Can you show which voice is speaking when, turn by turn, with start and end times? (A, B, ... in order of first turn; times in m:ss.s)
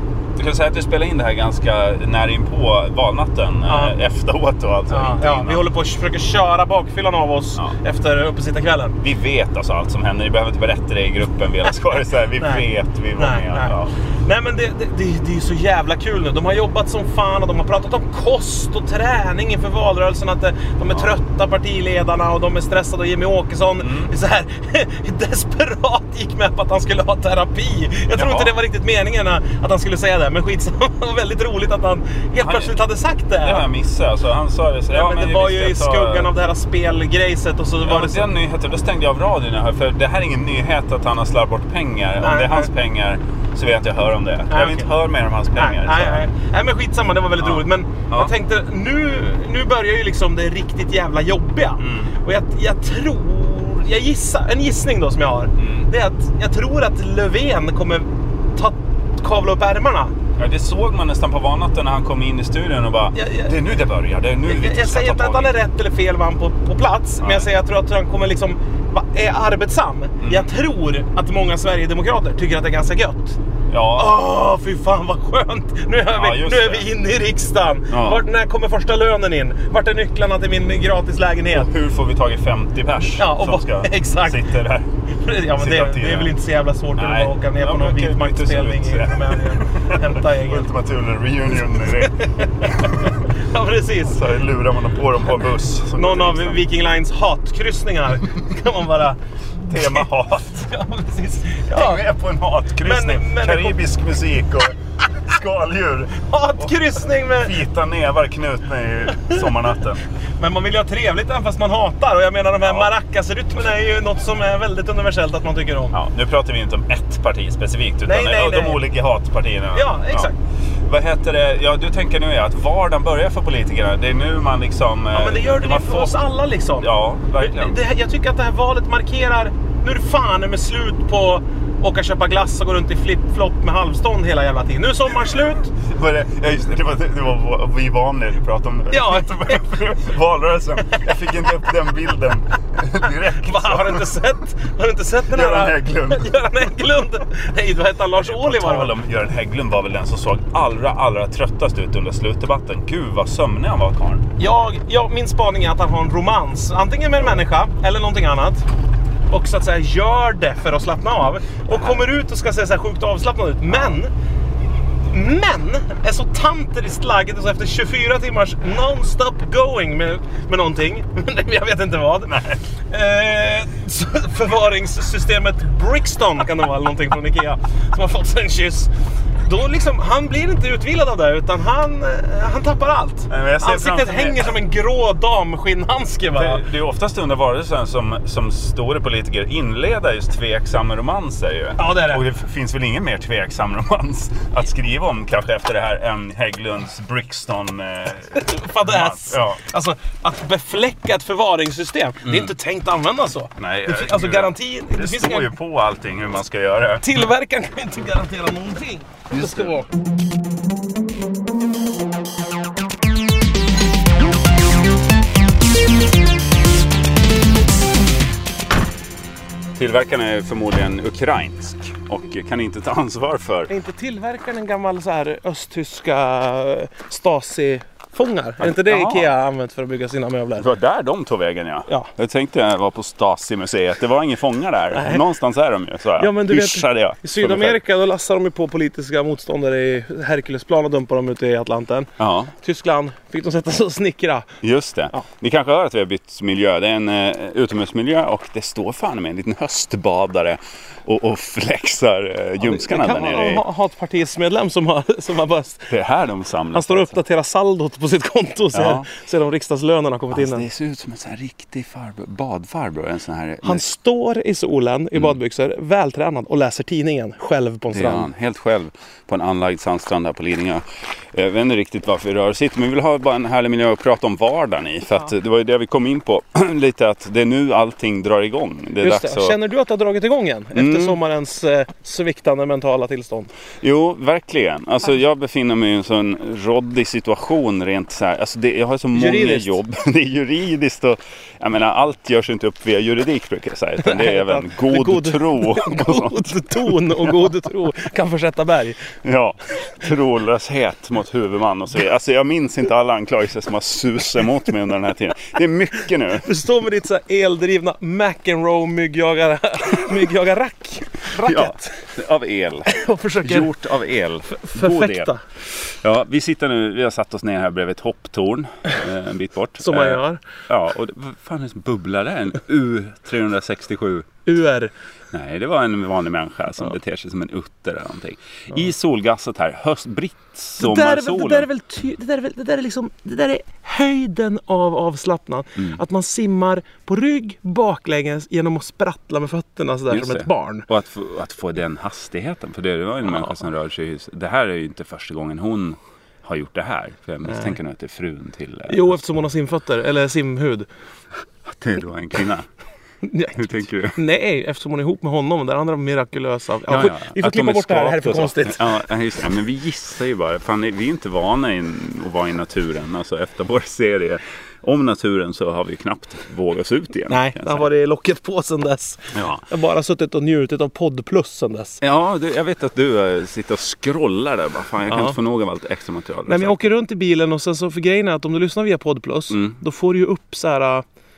0:00.4-0:05.7 A
0:03.7-0:04.0 B
0:04.9-0:09.0 B
0:09.0-0:13.9 A
0:12.4-0:12.6 B
0:13.2-0:33.6 B
0:23.8-0:24.1 A
0:28.1-0:28.5 A
0:32.4-0:32.7 A
0:33.4-0:36.3 A
0:34.9-0:38.3 B
0:37.8-0:46.3 A
0:42.2-0:42.7 B
0:44.5-0:44.9 B
0:45.5-1:00.1 B
0:47.4-0:48.3 A
0:51.8-0:52.2 A
0:55.6-0:55.9 A
1:00.4-1:05.6 A
1:03.2-1:03.5 B
1:04.5-1:13.4 B
1:07.2-1:07.5 A
1:10.2-1:10.5 A
1:13.7-1:14.2 A
1:14.0-1:21.7 B
1:16.1-1:16.9 A
1:17.9-1:18.2 A
1:21.5-1:24.9 A
1:23.2-1:24.5 B
1:25.1-1:30.7 B
1:25.6-1:26.4 A
1:27.0-1:33.2 A
1:31.7-1:34.2 B
1:34.0-1:36.6 A
1:36.0-1:42.0 B
1:39.7-1:40.7 A
1:41.7-1:46.8 A
1:42.8-1:43.8 B
1:46.2-1:47.6 B
1:47.3-1:50.0 A
1:50.4-1:56.0 B
1:52.6-1:52.9 A
1:55.9-2:00.3 A
1:58.1-1:58.8 B
1:59.7-2:00.4 B
2:00.9-2:06.2 A
2:05.1-2:06.9 B
2:06.8-2:07.8 A
2:07.4-2:15.7 B
2:15.8-2:24.2 A
2:18.9-2:19.8 B
2:20.9-2:21.5 B
2:23.0-2:28.9 B
2:25.3-2:26.3 A
2:28.1-2:34.3 A
2:34.4-2:38.7 B
2:39.3-2:44.1 B
2:45.1-2:52.4 B
2:52.3-2:52.6 A
2:52.9-2:58.9 B
2:59.4-3:06.6 B
3:03.3-3:04.5 A
3:06.4-3:19.6 A
3:11.8-3:12.2 B
3:18.3-3:25.5 B
3:22.3-3:22.5 A
3:23.6-3:27.1 A
3:27.0-3:29.9 B
3:29.3-3:29.8 A
3:39.8-3:43.7 A
3:43.7-3:50.7 B
3:48.6-3:49.3 A
3:50.6-3:57.8 A
3:54.9-3:55.2 B
3:56.2-4:04.5 B
4:02.2-4:02.5 A
4:04.6-4:13.6 A
4:12.6-4:15.9 B
4:15.9-4:17.2 A
4:16.7-4:20.7 B
4:18.7-4:19.1 A
4:20.3-4:23.9 A
4:23.6-4:28.3 B
4:27.9-4:39.6 A
4:39.0-4:43.5 B
4:40.7-4:41.2 A
4:43.8-4:57.5 A
4:49.1-4:49.7 B
4:54.0-4:59.1 B
4:59.2-5:06.5 A
5:06.3-5:12.1 B
5:11.4-5:24.3 A
5:12.9-5:13.8 B
5:14.5-5:15.4 B
5:19.8-5:20.4 B
5:24.5-5:24.9 B
5:25.3-5:31.7 A
5:30.8-5:40.8 B
5:40.1-5:49.2 A
5:47.5-5:47.8 B
5:48.9-5:50.9 B
5:51.6-5:52.7 A
5:53.2-5:59.0 B
5:53.5-5:54.2 A
5:56.9-6:07.9 A
6:07.3-6:12.0 B
6:09.3-6:09.6 A
6:12.0-6:16.9 A
6:15.1-6:15.4 B
6:16.5-6:21.0 B
6:19.5-6:19.8 A